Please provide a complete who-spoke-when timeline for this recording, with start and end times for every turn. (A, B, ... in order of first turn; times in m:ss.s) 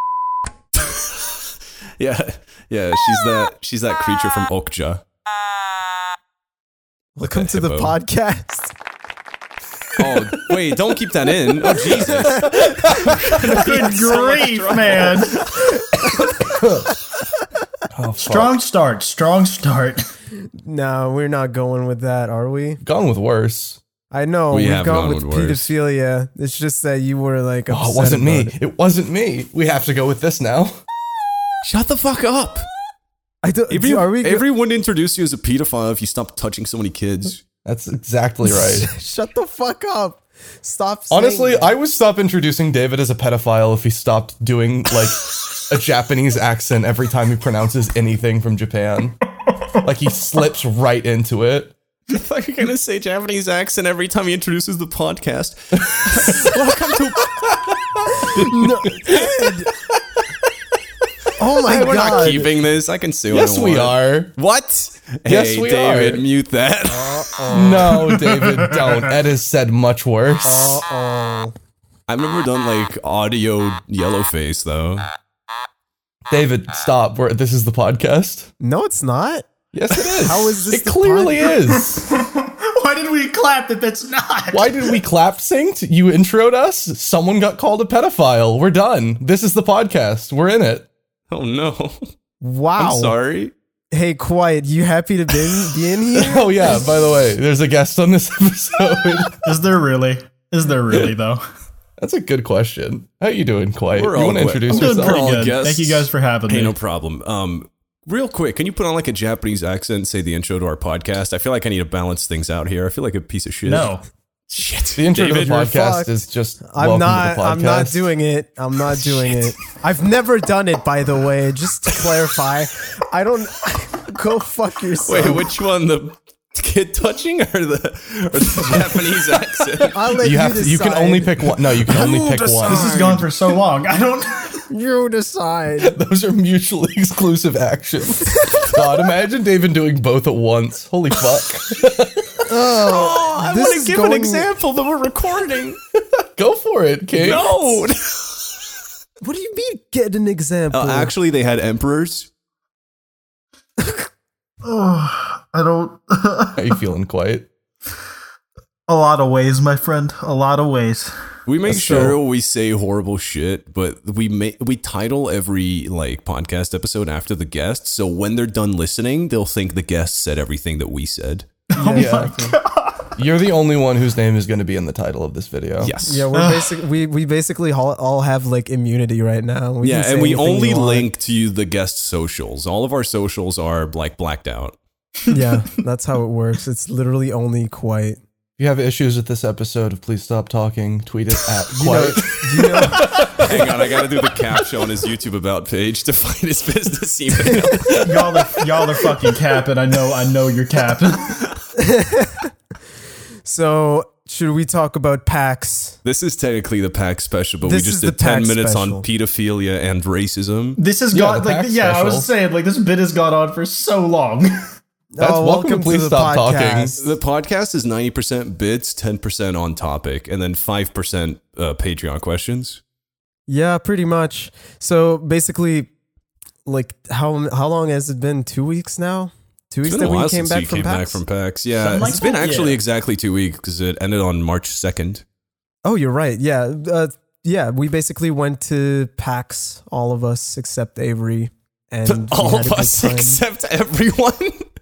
0:00.7-0:01.3 A
0:02.0-0:05.0 A
0:07.2-0:08.7 B
0:07.2-0:08.0 A
0:10.0-0:16.1 A
0:12.7-0:13.1 C
0:13.3-0:15.4 D
0:16.5-0:16.8 C
0:17.9-0:18.6 C
0:18.2-0:20.1 D
0:20.6-0:22.8 B
0:22.8-0:23.8 C
0:24.1-0:28.6 B
0:24.5-0:25.7 A
0:27.7-0:30.8 C
0:31.6-0:32.7 A
0:33.4-0:34.4 B
0:33.7-0:37.4 A
0:37.6-0:38.9 C
0:38.5-0:41.7 B
0:41.1-0:49.2 C
0:49.8-0:51.7 C
0:52.1-0:57.5 A
0:57.7-0:59.3 C
0:58.3-0:59.7 B
1:01.4-1:02.5 B
1:01.6-1:07.3 A
1:03.3-1:04.3 C
1:05.3-1:06.2 C
1:06.9-1:08.0 B
1:07.5-1:10.8 C
1:10.4-1:11.5 B
1:12.1-1:15.0 A
1:16.3-1:18.5 C
1:18.6-1:19.5 B
1:19.7-1:22.0 C
1:20.2-1:21.6 B
1:22.1-1:25.0 D
1:24.5-1:30.9 C
1:31.3-1:32.0 A
1:32.4-1:33.1 B
1:32.8-1:33.5 A
1:33.9-1:36.8 B
1:36.1-1:39.6 C
1:39.4-1:41.4 D
1:42.0-1:45.4 C
1:44.0-1:54.0 A
1:44.7-1:46.8 D
1:53.7-1:54.0 D
1:54.5-1:55.6 A
1:55.0-1:58.1 C
1:55.4-1:56.2 B
1:56.7-2:05.4 B
1:59.1-1:59.4 A
2:05.0-2:10.0 A
2:09.8-2:11.3 B
2:10.2-2:13.0 C
2:11.9-2:13.3 A
2:12.6-2:14.6 D
2:14.7-2:15.9 B
2:15.8-2:22.4 C
2:22.5-2:24.5 B
2:22.8-2:25.8 A
2:26.4-2:27.6 C
2:27.2-2:28.4 A
2:29.2-2:31.1 B
2:30.7-2:32.3 A
2:33.8-2:34.1 B
2:34.6-2:36.6 D
2:36.6-2:37.5 C
2:38.9-2:41.1 D
2:41.5-2:51.5 A
2:41.7-2:42.2 C
2:51.7-2:53.1 D
2:51.8-2:52.6 B
2:51.9-2:52.5 C
2:53.2-2:56.0 C
2:55.8-2:56.3 A
2:56.0-3:01.1 B
2:56.3-2:56.7 D
2:59.8-3:04.8 A
3:05.3-3:08.2 B
3:08.6-3:13.8 C
3:11.7-3:13.1 B
3:13.0-3:18.1 A
3:17.9-3:18.4 C
3:17.9-3:21.5 D
3:21.8-3:22.5 B
3:23.4-3:26.0 B
3:26.0-3:30.8 A
3:27.6-3:29.1 B
3:30.8-3:34.6 D
3:31.1-3:32.3 C
3:35.1-3:37.0 B
3:35.2-3:37.0 C
3:37.0-3:42.8 A
3:43.5-3:45.9 B
3:46.6-3:51.2 B
3:49.9-3:55.2 A
3:51.8-3:52.8 D
3:55.8-4:03.4 B
4:02.0-4:04.7 A